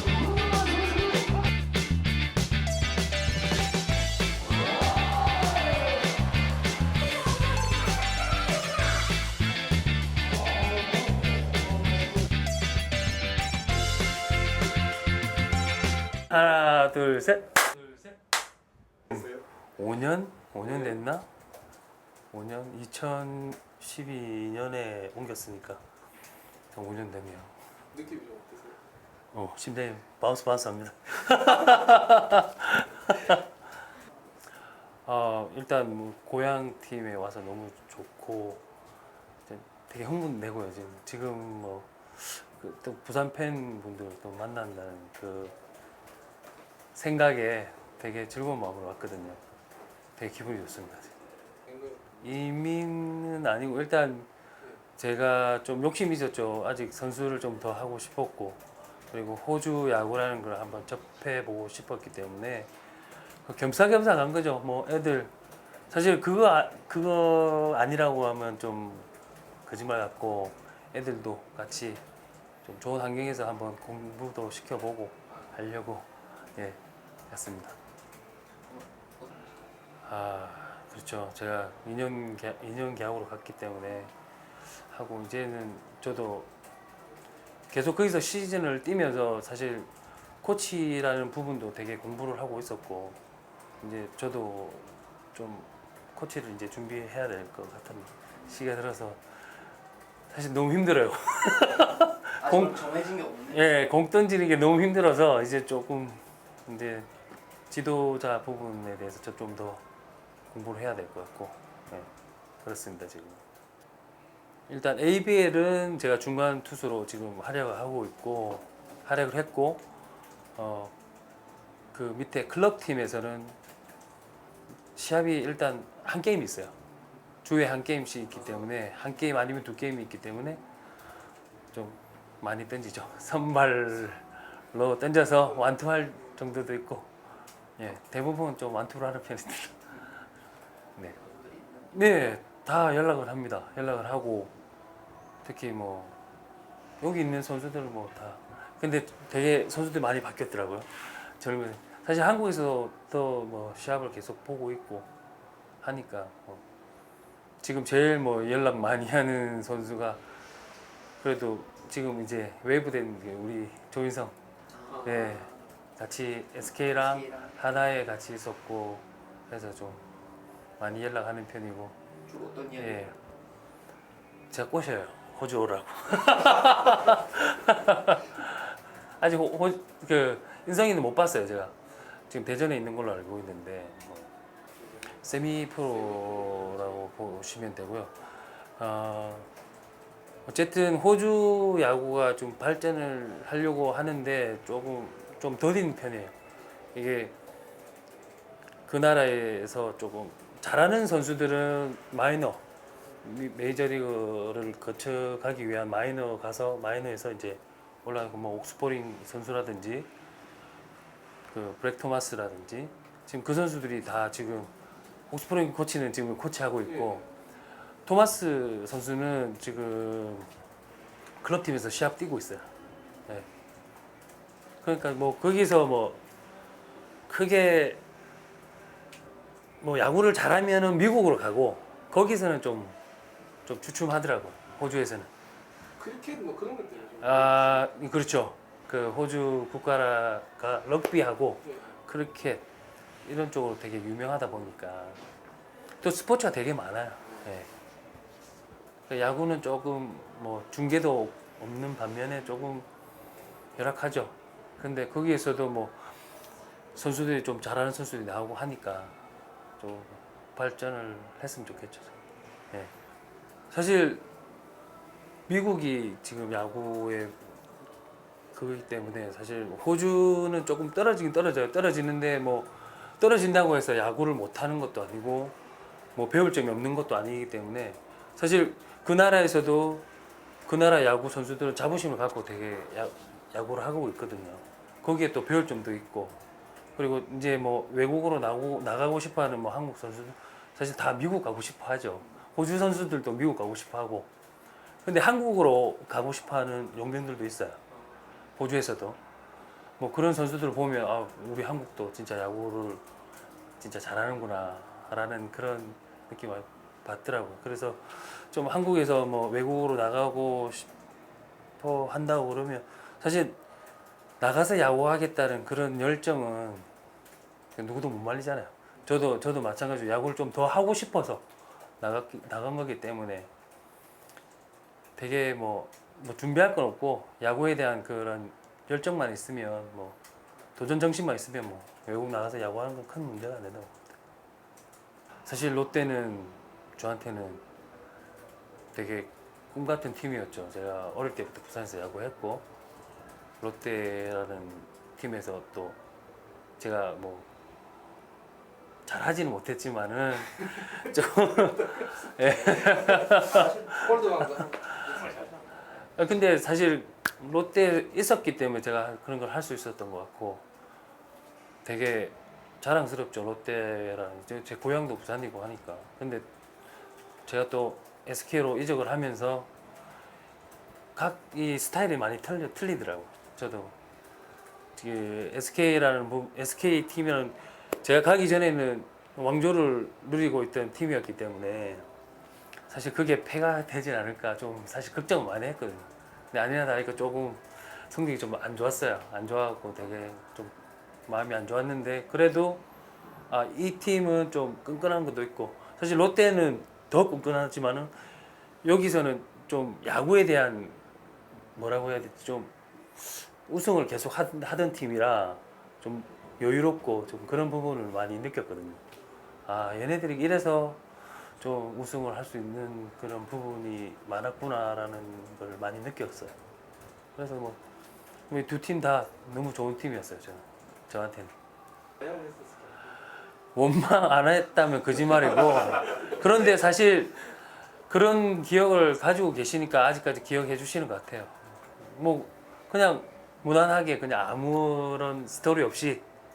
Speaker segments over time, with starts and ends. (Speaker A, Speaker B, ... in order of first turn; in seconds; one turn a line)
Speaker A: 0.5-0.8
Speaker B: 16.3-18.1
Speaker C: 19.1-19.4
Speaker B: 19.8-21.3
Speaker C: 20.6-20.9
Speaker B: 22.3-25.8
Speaker B: 26.7-27.6
Speaker C: 27.9-28.8
Speaker B: 29.3-33.5
Speaker B: 35.1-38.6
Speaker B: 39.5-45.6
Speaker B: 47.0-49.4
Speaker B: 50.2-51.2
Speaker C: 51.7-52.1
Speaker B: 52.2-54.3
Speaker B: 55.0-62.7
Speaker B: 63.4-65.3
Speaker B: 65.9-69.1
Speaker B: 69.7-72.0
Speaker B: 72.6-77.8
Speaker A: 78.7-79.5
Speaker B: 80.0-84.1
Speaker B: 84.7-86.5
Speaker B: 87.7-93.2
Speaker B: 93.8-99.2
Speaker B: 100.3-107.1
Speaker A: 102.4-103.6
Speaker B: 107.7-109.8
Speaker B: 110.5-112.1
Speaker B: 112.6-113.4
Speaker B: 114.7-119.9
Speaker B: 120.6-120.9
Speaker B: 121.9-123.6
Speaker B: 125.0-126.8
Speaker B: 127.4-130.6
Speaker B: 131.7-137.2
Speaker B: 137.8-140.2
Speaker A: 141.2-141.9
Speaker B: 141.9-144.5
Speaker B: 145.4-146.2
Speaker B: 147.0-155.1
Speaker B: 155.8-156.6
Speaker B: 157.6-160.2
Speaker B: 161.2-164.4
Speaker A: 164.8-165.6
Speaker B: 165.0-170.1
Speaker A: 167.1-167.5
Speaker B: 170.8-172.0
Speaker A: 172.3-173.1
Speaker B: 172.8-173.2
Speaker B: 174.5-181.8
Speaker B: 182.3-184.3
Speaker B: 185.1-189.5
Speaker C: 186.0-186.9
Speaker B: 190.5-196.3
Speaker B: 196.9-197.3
Speaker B: 198.9-202.6
Speaker B: 203.2-210.1
Speaker B: 211.5-214.7
Speaker B: 215.3-217.3
Speaker B: 218.1-220.5
Speaker B: 221.4-222.7
Speaker B: 224.8-226.2
Speaker B: 227.3-228.0
Speaker B: 229.8-233.0
Speaker B: 233.7-235.3
Speaker C: 236.0-237.8
Speaker B: 237.2-242.7
Speaker C: 241.7-242.0
Speaker B: 243.2-245.2
Speaker B: 246.0-247.7
Speaker B: 249.1-252.9
Speaker B: 253.8-256.2
Speaker B: 256.9-259.2
Speaker B: 259.8-262.2
Speaker B: 263.7-264.3
Speaker B: 265.5-267.6
Speaker B: 268.5-275.6
Speaker B: 276.1-280.1
Speaker B: 280.7-286.4
Speaker B: 287.0-294.3
Speaker B: 295.1-297.8
Speaker B: 298.6-299.2
Speaker B: 300.0-303.0
Speaker B: 303.8-310.9
Speaker B: 311.8-313.6
Speaker B: 314.4-316.9
Speaker B: 317.8-321.5
Speaker B: 322.0-323.5
Speaker B: 325.2-330.2
Speaker B: 330.8-334.1
Speaker B: 335.4-337.6
Speaker B: 338.9-342.7
Speaker B: 343.6-346.0
Speaker B: 346.8-347.5
Speaker B: 349.1-355.3
Speaker C: 352.8-355.4
Speaker B: 356.2-360.6
Speaker B: 361.8-366.5
Speaker B: 367.5-369.7
Speaker B: 371.1-373.9
Speaker B: 375.0-382.1
Speaker B: 382.9-390.8
Speaker B: 391.3-392.8
Speaker B: 393.5-398.1
Speaker B: 398.8-401.0
Speaker B: 401.8-409.0
Speaker B: 409.7-416.6
Speaker B: 417.4-417.8
Speaker B: 418.5-421.5
Speaker C: 422.2-423.2
Speaker B: 423.8-436.3